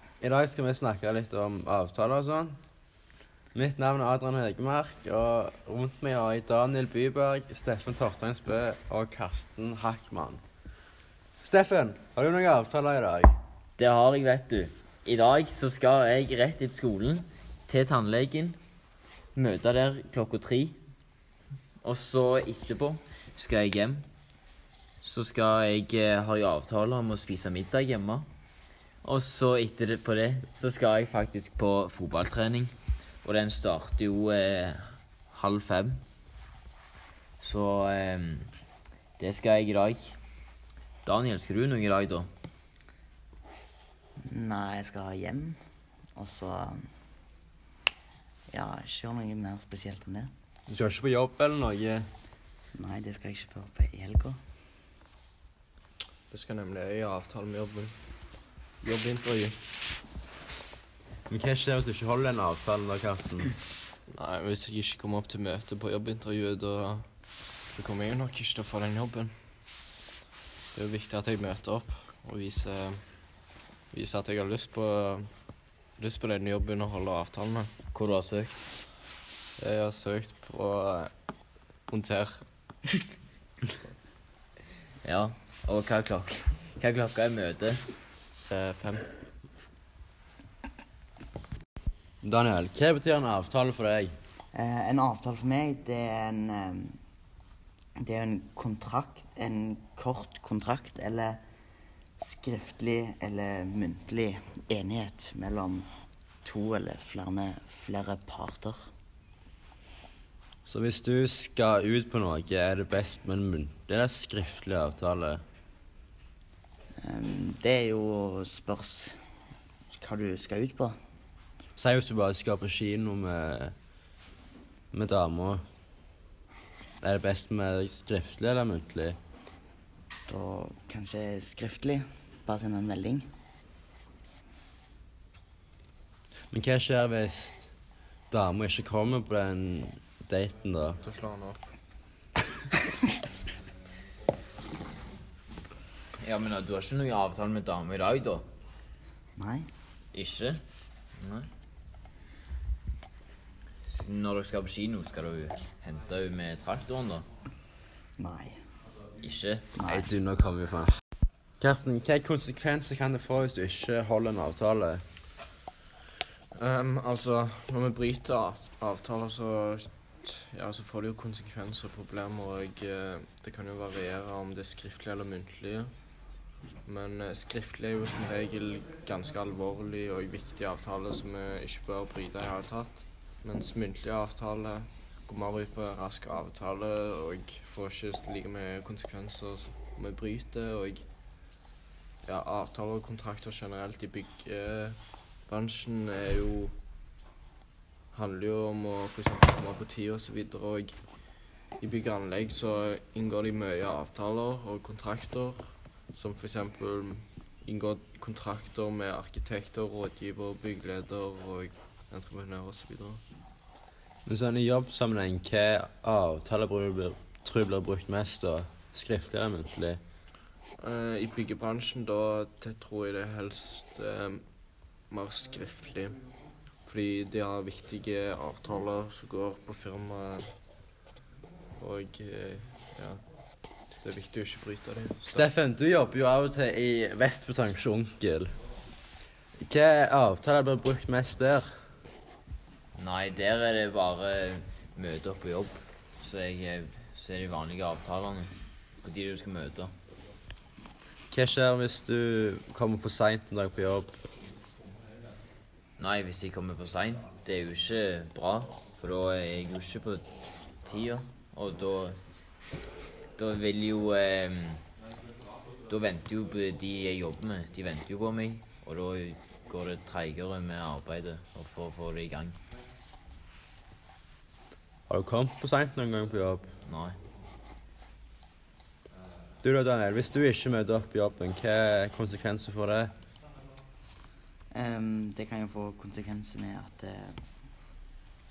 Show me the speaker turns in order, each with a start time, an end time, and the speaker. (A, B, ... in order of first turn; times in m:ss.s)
0:00.2-0:02.6 A
0:03.5-0:10.4 A
0:11.4-0:13.3 A
0:13.8-0:18.6 B
0:19.3-0:20.8 B
0:21.8-0:24.0 B
0:25.0-0:28.2 B
0:29.0-0:32.7 B
0:33.2-0:36.0 B
0:37.4-0:38.5 B
0:39.2-0:40.1 B
0:41.0-0:42.3 B
0:44.2-0:45.6 C
0:46.2-0:46.9 C
0:48.5-0:50.3 C
0:50.7-0:52.1 A
0:52.7-0:54.4 C
0:56.3-0:57.9 D
0:58.8-0:59.5 D
1:01.3-1:03.5 A
1:04.1-1:07.0 D
1:07.7-1:09.3 D
1:10.7-1:15.3 D
1:15.9-1:17.7 D
1:17.9-1:18.6 B
1:19.6-1:21.1 D
1:21.9-1:22.4 D
1:25.0-1:27.8 B
1:28.5-1:29.1 D
1:32.2-1:34.1 A
1:34.5-1:37.0 C
1:38.0-1:41.4 C
1:42.2-1:45.9 C
1:46.4-1:48.8 C
1:50.7-1:55.4 A
1:57.0-1:59.2 C
1:59.9-2:00.9 C
2:01.8-2:03.7 A
2:04.9-2:05.6 A
2:07.0-2:09.2 A
2:10.3-2:13.2 C
2:16.5-2:17.7 A
2:18.3-2:21.0 A
2:21.0-2:21.6 D
2:26.2-2:28.4 B
2:29.4-2:29.7 C
2:30.1-2:30.6 B
2:31.2-2:31.5 B
2:33.9-2:37.2 B
2:38.2-2:38.6 C
2:39.2-2:39.6 B
2:39.7-2:40.1 C
2:39.8-2:40.9 A
2:41.6-2:45.0 A
2:46.5-2:55.9 D
2:56.8-3:11.0 D
3:12.2-3:16.7 D
3:18.1-3:21.0 D
3:21.8-3:33.2 D
3:34.2-3:40.0 A
3:40.8-3:46.2 D
3:46.8-3:50.5 D
3:51.8-3:53.2 D
3:54.0-3:55.5 D
3:55.2-3:58.5 A
3:59.6-4:01.7 A
4:02.9-4:08.5 B
4:09.0-4:09.9 B
4:11.3-4:14.2 A
4:16.0-4:20.3 B
4:20.8-4:22.2 B
4:23.4-4:24.8 B
4:25.9-4:32.6 B
4:35.1-4:36.7 A
4:36.8-4:37.2 B
4:39.6-4:43.1 A
4:44.7-4:47.4 C